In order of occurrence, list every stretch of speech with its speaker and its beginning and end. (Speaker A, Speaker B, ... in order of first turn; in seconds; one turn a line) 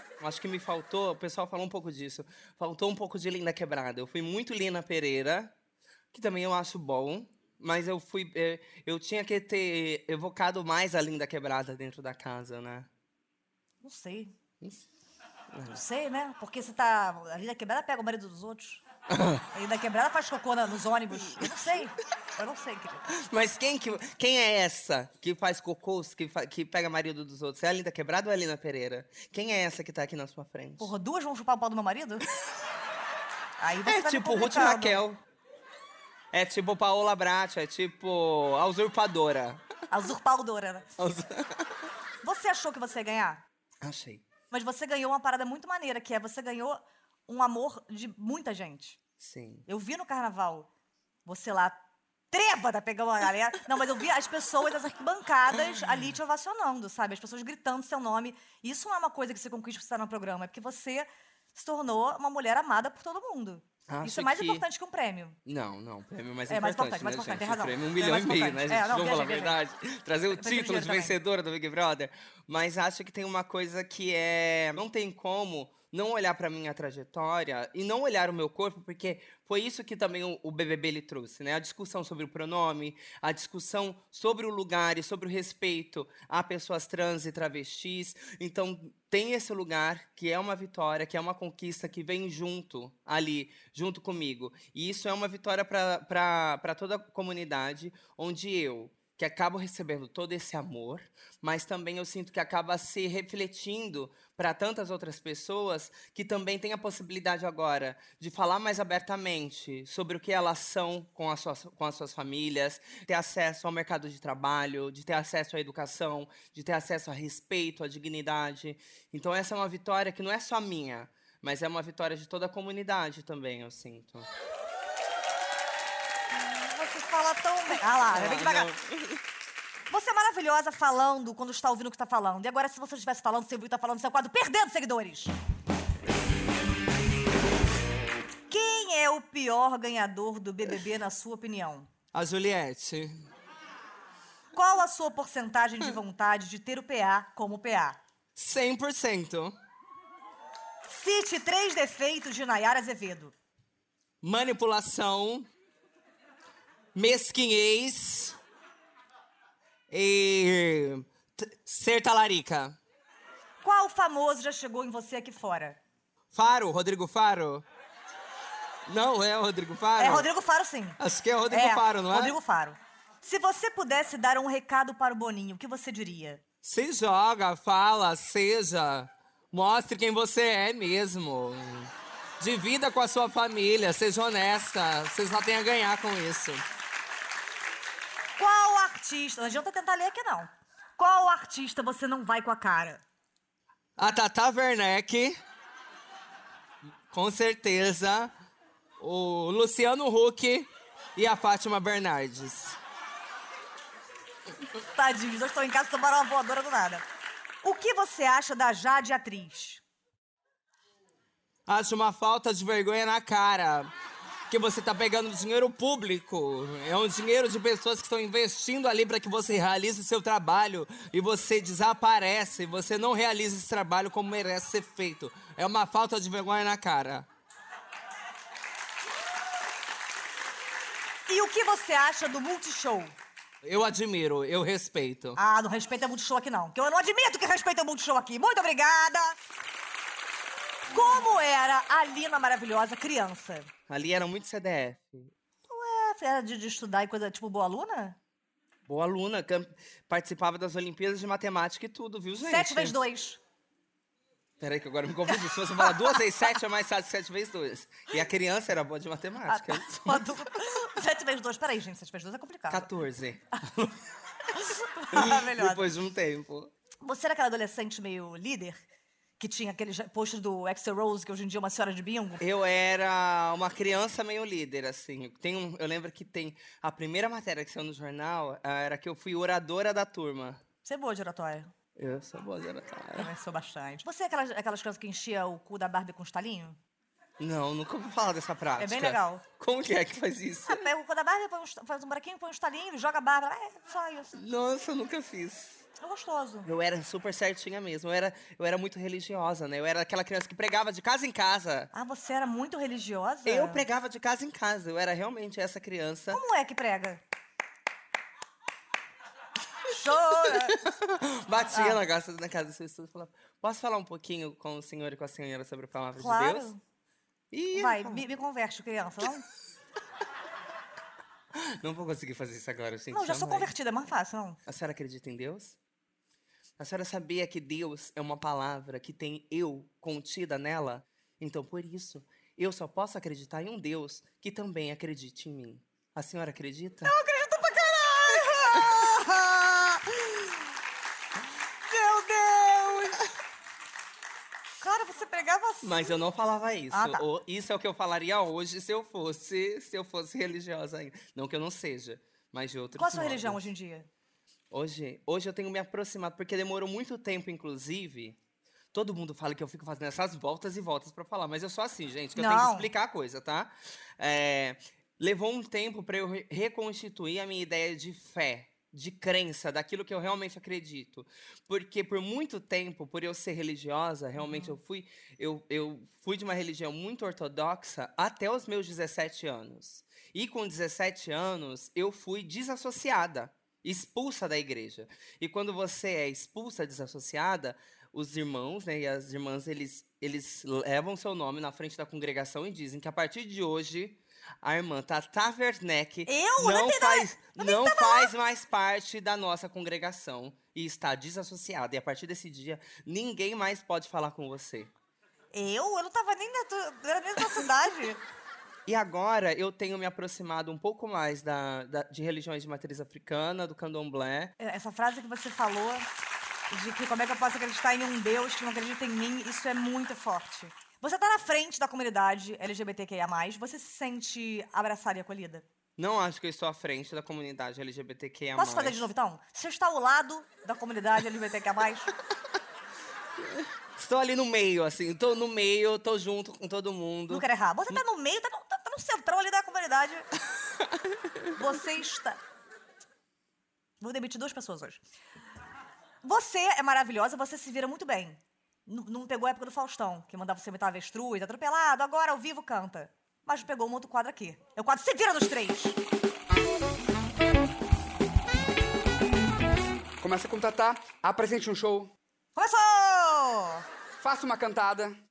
Speaker A: 0.2-5.5
Speaker A: 6.1-12.9
Speaker B: 13.8-14.3
Speaker A: 15.5-15.8
Speaker B: 15.7-18.8
Speaker A: 19.1-19.4
Speaker B: 19.5-23.1
Speaker A: 23.1-30.9
Speaker B: 30.8-32.3
Speaker B: 33.6-35.0
Speaker A: 33.9-35.2
Speaker A: 36.3-39.6
Speaker B: 39.9-40.9
Speaker A: 41.0-41.7
Speaker B: 42.2-43.4
Speaker A: 43.8-44.2
Speaker B: 44.5-49.0
Speaker A: 49.2-49.6
Speaker B: 49.7-50.7
Speaker B: 51.2-51.8
Speaker B: 52.3-65.4
Speaker A: 63.9-64.6
Speaker A: 65.5-124.3
Speaker B: 66.5-69.6
Speaker B: 70.3-71.2
Speaker B: 126.3-128.7
Speaker A: 128.1-129.2
Speaker B: 129.9-135.3
Speaker B: 138.5-141.9
Speaker A: 142.1-143.3
Speaker B: 144.5-148.0
Speaker A: 148.4-149.6
Speaker B: 150.9-153.3
Speaker A: 154.2-155.5
Speaker A: 156.9-158.4
Speaker A: 159.9-162.8
Speaker B: 163.6-165.8
Speaker A: 166.3-167.6
Speaker A: 168.9-170.3
Speaker B: 170.0-171.0
Speaker A: 171.0-172.4
Speaker B: 171.5-176.4
Speaker A: 176.6-186.6
Speaker B: 188.4-193.0
Speaker A: 194.0-195.4
Speaker A: 197.1-198.3
Speaker A: 199.0-202.8
Speaker B: 204.9-207.0
Speaker B: 207.6-209.8
Speaker A: 211.7-213.9
Speaker A: 214.5-227.3
Speaker B: 231.3-233.2
Speaker A: 233.6-235.4
Speaker B: 235.4-239.4
Speaker B: 240.9-243.7
Speaker A: 243.9-245.3
Speaker B: 245.7-248.2
Speaker A: 248.9-252.9
Speaker B: 252.4-253.4
Speaker A: 254.6-260.3
Speaker B: 255.3-256.2
Speaker B: 259.5-262.9
Speaker A: 262.7-264.0
Speaker B: 264.5-265.8
Speaker A: 265.1-266.7
Speaker B: 267.0-268.8
Speaker B: 269.4-272.4
Speaker A: 272.4-280.6
Speaker B: 280.8-281.7
Speaker A: 281.9-283.3
Speaker B: 283.1-286.8
Speaker A: 287.4-290.9
Speaker B: 288.8-289.4
Speaker B: 290.7-294.3
Speaker A: 294.3-295.8
Speaker B: 296.0-296.7
Speaker A: 296.6-301.9
Speaker B: 301.9-303.8
Speaker A: 303.4-306.4
Speaker B: 306.3-307.2
Speaker B: 309.9-310.8
Speaker A: 310.7-316.7
Speaker B: 311.7-312.0
Speaker B: 316.1-316.8
Speaker A: 317.5-318.2
Speaker B: 317.7-319.4
Speaker A: 321.5-323.7
Speaker B: 323.1-324.6
Speaker A: 324.6-325.8
Speaker A: 326.8-337.1
Speaker B: 337.1-340.5
Speaker B: 341.9-343.2
Speaker B: 344.8-346.1
Speaker A: 345.8-353.6
Speaker B: 346.9-347.2
Speaker B: 352.9-354.1
Speaker A: 354.7-358.4
Speaker A: 358.9-404.9
Speaker B: 362.4-362.9
Speaker B: 374.4-374.8
Speaker B: 396.3-398.3
Speaker B: 405.5-408.2
Speaker A: 408.9-414.5
Speaker B: 414.6-416.1
Speaker B: 416.7-425.6
Speaker A: 426.0-429.1
Speaker B: 428.6-432.1
Speaker A: 433.4-437.9
Speaker B: 437.3-440.3
Speaker B: 441.6-442.4
Speaker B: 444.0-445.0
Speaker B: 446.2-456.0
Speaker C: 460.2-462.1
Speaker B: 462.6-463.8
Speaker C: 464.2-465.1